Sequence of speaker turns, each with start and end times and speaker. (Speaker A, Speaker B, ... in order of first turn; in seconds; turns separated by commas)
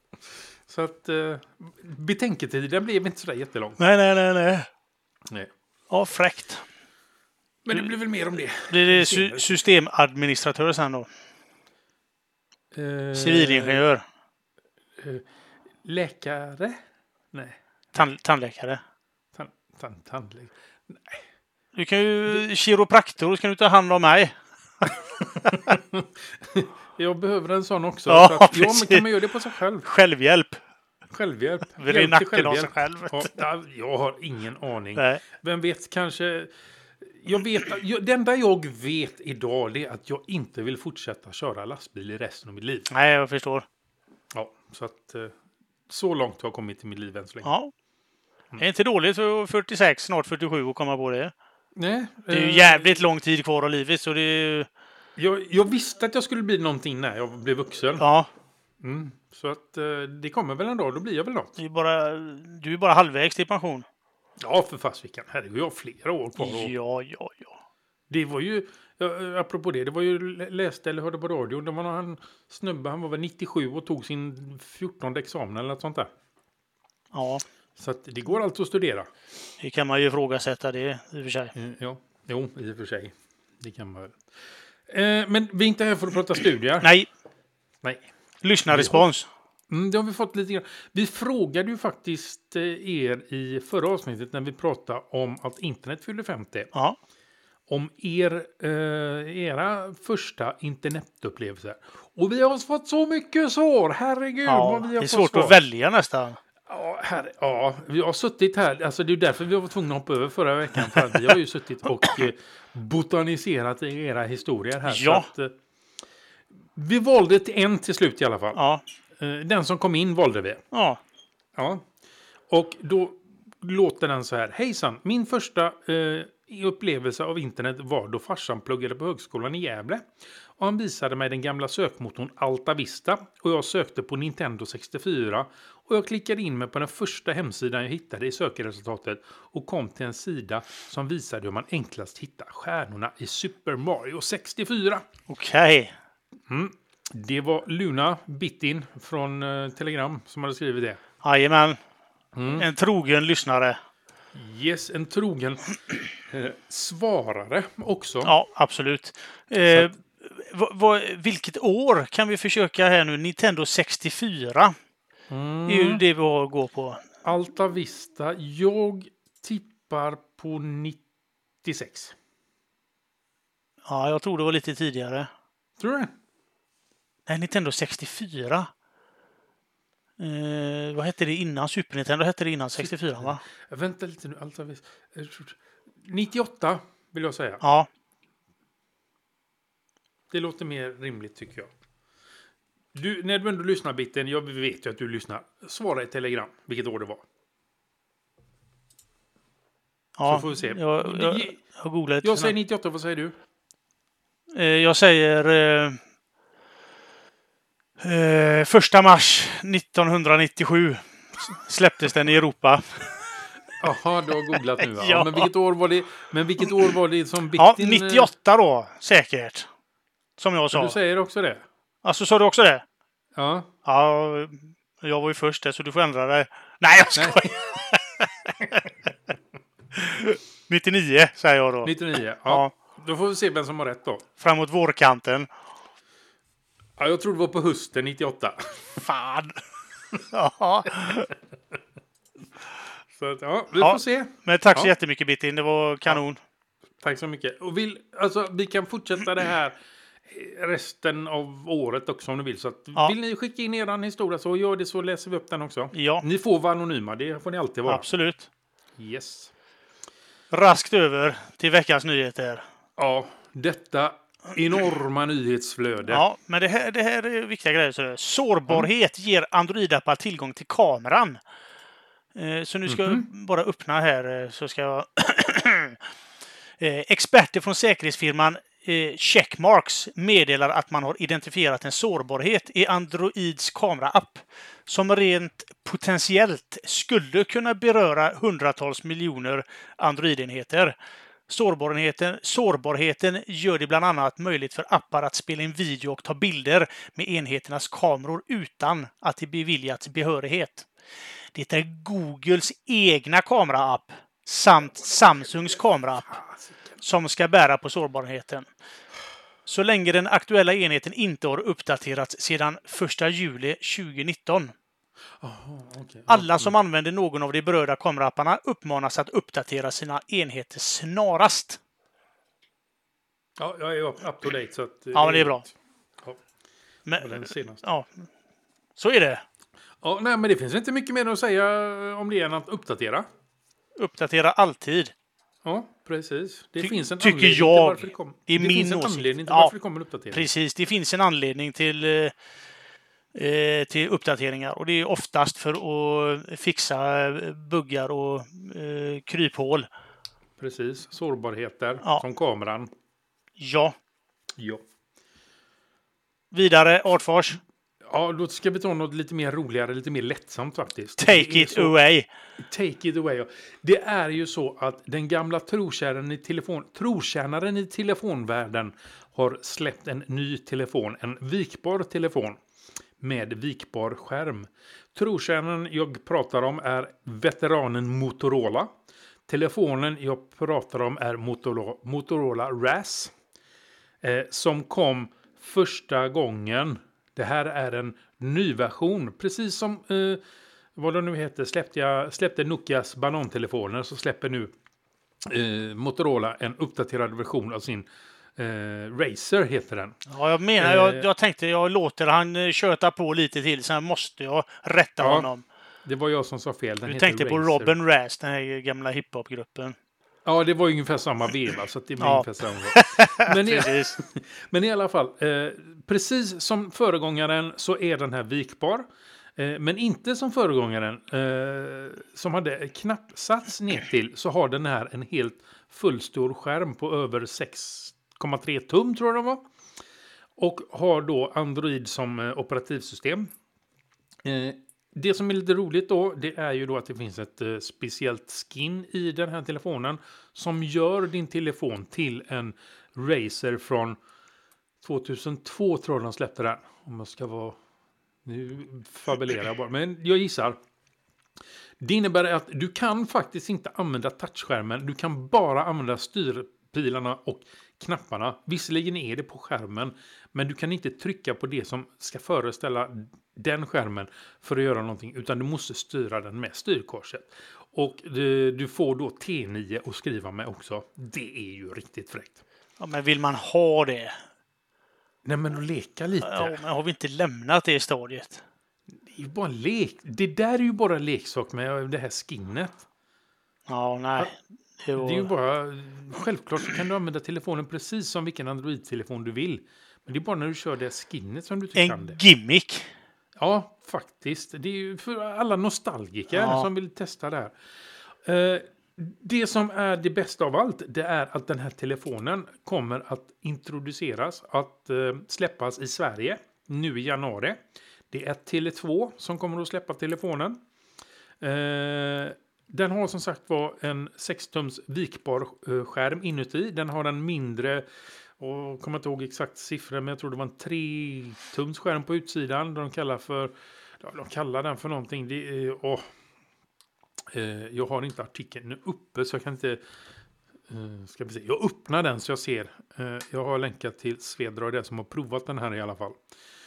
Speaker A: 0.7-3.8, Speaker B: 3.8-4.7, Speaker B: 5.9-6.6, Speaker A: 7.6-9.6, Speaker B: 8.7-11.1, Speaker A: 12.7-13.8, Speaker B: 13.1-14.0, Speaker A: 15.0-15.3, Speaker A: 15.8-16.8, Speaker A: 17.3-17.6, Speaker B: 17.9-18.8, Speaker A: 19.3-21.2, Speaker B: 21.8-24.9, Speaker A: 25.2-29.9, Speaker B: 25.5-25.8, Speaker B: 28.1-29.1, Speaker B: 29.8-30.6, Speaker A: 31.1-42.9, Speaker B: 31.8-33.4, Speaker B: 35.0-35.2, Speaker B: 42.9-43.7, Speaker A: 44.3-45.4, Speaker A: 45.9-47.5, Speaker B: 47.4-47.7, Speaker B: 48.6-51.3, Speaker A: 51.8-53.0, Speaker B: 52.3-54.7, Speaker A: 55.2-58.0, Speaker B: 58.0-58.3, Speaker A: 58.8-61.5, Speaker B: 61.6-63.9, Speaker A: 64.4-66.7, Speaker B: 66.4-67.5, Speaker A: 68.1-76.1, Speaker B: 77.1-77.4, Speaker A: 77.8-79.1, Speaker B: 79.6-81.5, Speaker A: 81.5-84.2, Speaker A: 84.9-86.9, Speaker B: 86.8-87.1, Speaker A: 87.8-88.1, Speaker B: 88.4-89.3, Speaker A: 88.7-89.1, Speaker A: 89.7-96.7, Speaker A: 97.7-105.6, Speaker B: 104.5-106.4, Speaker A: 106.7-115.5, Speaker B: 110.8-111.3, Speaker B: 114.8-115.3, Speaker A: 116.7-118.6, Speaker B: 118.5-118.8, Speaker A: 119.2-120.6, Speaker B: 120.7-121.0, Speaker A: 121.5-121.9, Speaker A: 122.5-145.1, Speaker B: 145.3-145.9, Speaker A: 146.5-151.0, Speaker B: 151.2-151.8, Speaker A: 152.3-152.7, Speaker B: 152.5-153.8, Speaker A: 154.3-158.3, Speaker B: 158.2-164.8, Speaker A: 159.7-159.9, Speaker A: 165.3-166.0, Speaker B: 165.7-167.1, Speaker A: 167.2-171.0, Speaker A: 171.6-172.2, Speaker B: 173.9-175.3, Speaker A: 175.8-176.1, Speaker B: 177.3-178.7, Speaker B: 180.2-183.4, Speaker A: 182.8-187.6, Speaker B: 187.6-187.9, Speaker A: 190.3-191.7, Speaker A: 192.9-197.2, Speaker B: 200.2-202.5, Speaker A: 200.2-201.6, Speaker A: 202.2-203.3, Speaker B: 204.5-206.0, Speaker B: 208.0-213.3, Speaker A: 213.8-218.3, Speaker B: 214.6-215.5, Speaker B: 217.6-219.7, Speaker B: 220.4-221.0, Speaker A: 220.7-221.6, Speaker B: 222.0-222.8, Speaker A: 223.4-223.7, Speaker B: 223.8-228.8, Speaker A: 227.2-227.5, Speaker B: 229.9-231.9, Speaker A: 231.8-234.3, Speaker B: 232.5-232.7, Speaker B: 234.4-235.5, Speaker A: 237.0-239.0, Speaker B: 239.0-239.6, Speaker B: 240.3-241.3, Speaker A: 243.1-244.9, Speaker B: 243.8-246.4, Speaker A: 247.0-258.1, Speaker B: 255.9-256.2, Speaker B: 257.9-258.5, Speaker A: 259.0-259.5, Speaker B: 260.5-262.6, Speaker A: 263.0-266.2, Speaker B: 266.1-271.4, Speaker B: 272.4-276.0, Speaker A: 272.9-273.3, Speaker B: 276.8-290.9, Speaker B: 291.5-300.9, Speaker B: 301.5-306.3, Speaker A: 305.7-307.0, Speaker B: 307.0-308.7, Speaker B: 309.7-314.7, Speaker A: 315.4-316.7, Speaker B: 316.3-321.8, Speaker A: 323.6-326.4, Speaker B: 325.1-325.6, Speaker B: 327.1-328.2, Speaker A: 327.2-327.8, Speaker B: 329.0-329.4, Speaker A: 330.0-333.3, Speaker B: 334.0-335.1, Speaker A: 335.6-340.5, Speaker B: 336.8-339.7, Speaker B: 340.3-342.3, Speaker B: 343.4-349.9, Speaker A: 350.6-352.9, Speaker B: 353.6-354.0, Speaker B: 356.5-357.6, Speaker A: 358.0-361.9, Speaker B: 361.2-362.3, Speaker A: 362.6-372.6, Speaker A: 373.2-378.9, Speaker A: 379.5-383.3, Speaker A: 384.2-390.4, Speaker A: 391.0-394.7, Speaker A: 395.4-400.2, Speaker B: 400.3-405.6, Speaker A: 400.8-401.3, Speaker A: 405.2-405.5, Speaker A: 406.1-407.9, Speaker B: 407.1-410.0, Speaker A: 410.4-429.6, Speaker B: 412.2-414.2, Speaker A: 430.6-433.5, Speaker A: 434.4-444.2, Speaker A: 445.0-447.8, Speaker A: 448.4-450.8, Speaker A: 452.0-472.6, Speaker B: 473.0-474.4, Speaker A: 475.4-476.8, Speaker B: 476.4-478.6, Speaker A: 479.2-483.1, Speaker B: 483.9-485.5, Speaker A: 485.2-492.4, Speaker B: 492.0-493.1, Speaker A: 493.6-497.8, Speaker B: 496.5-496.9, Speaker A: 498.4-510.8, Speaker A: 511.6-518.1, Speaker A: 518.6-526.3, Speaker A: 527.5-530.0, Speaker A: 530.9-536.4